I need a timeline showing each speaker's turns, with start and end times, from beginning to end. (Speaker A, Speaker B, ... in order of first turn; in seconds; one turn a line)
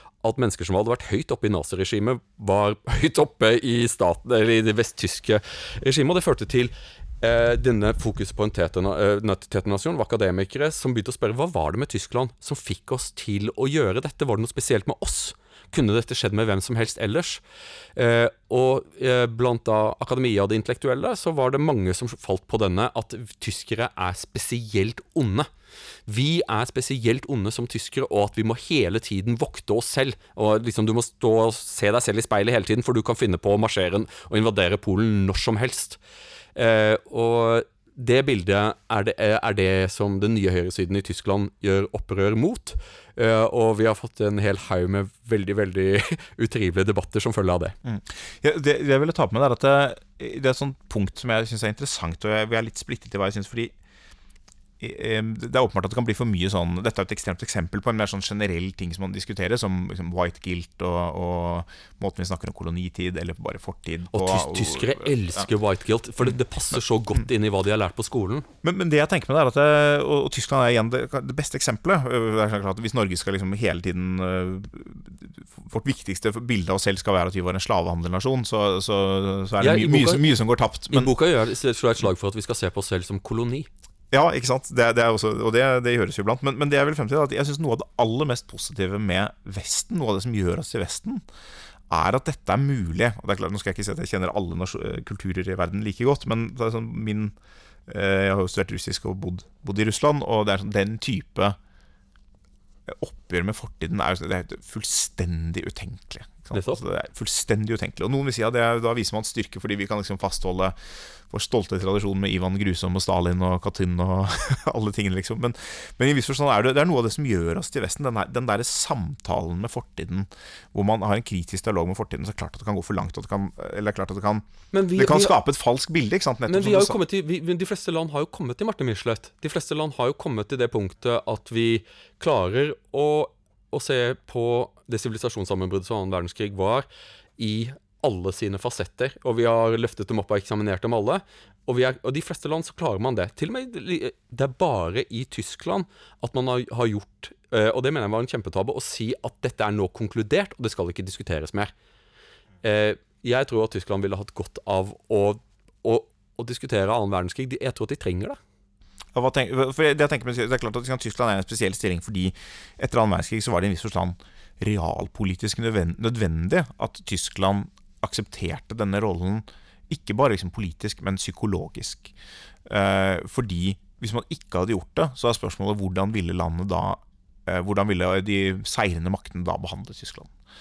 Speaker A: 0.2-17.4
Speaker A: 17.9-25.5
Speaker A: 26.1-36.0
Speaker A: 36.5-47.7
Speaker B: 47.8-53.7
Speaker B: 54.8-65.5
Speaker A: 64.1-68.5
Speaker B: 68.6-81.1
Speaker A: 79.6-80.3
Speaker A: 80.9-83.7
Speaker B: 84.1-91.2
Speaker B: 91.9-97.3
Speaker B: 97.9-101.6
Speaker B: 102.9-110.8
Speaker A: 106.5-106.8
Speaker B: 111.3-127.0
Speaker A: 124.7-125.4
Speaker A: 126.5-136.8
Speaker A: 137.4-151.7
Speaker A: 152.6-158.4
Speaker B: 159.1-172.1
Speaker B: 172.7-180.3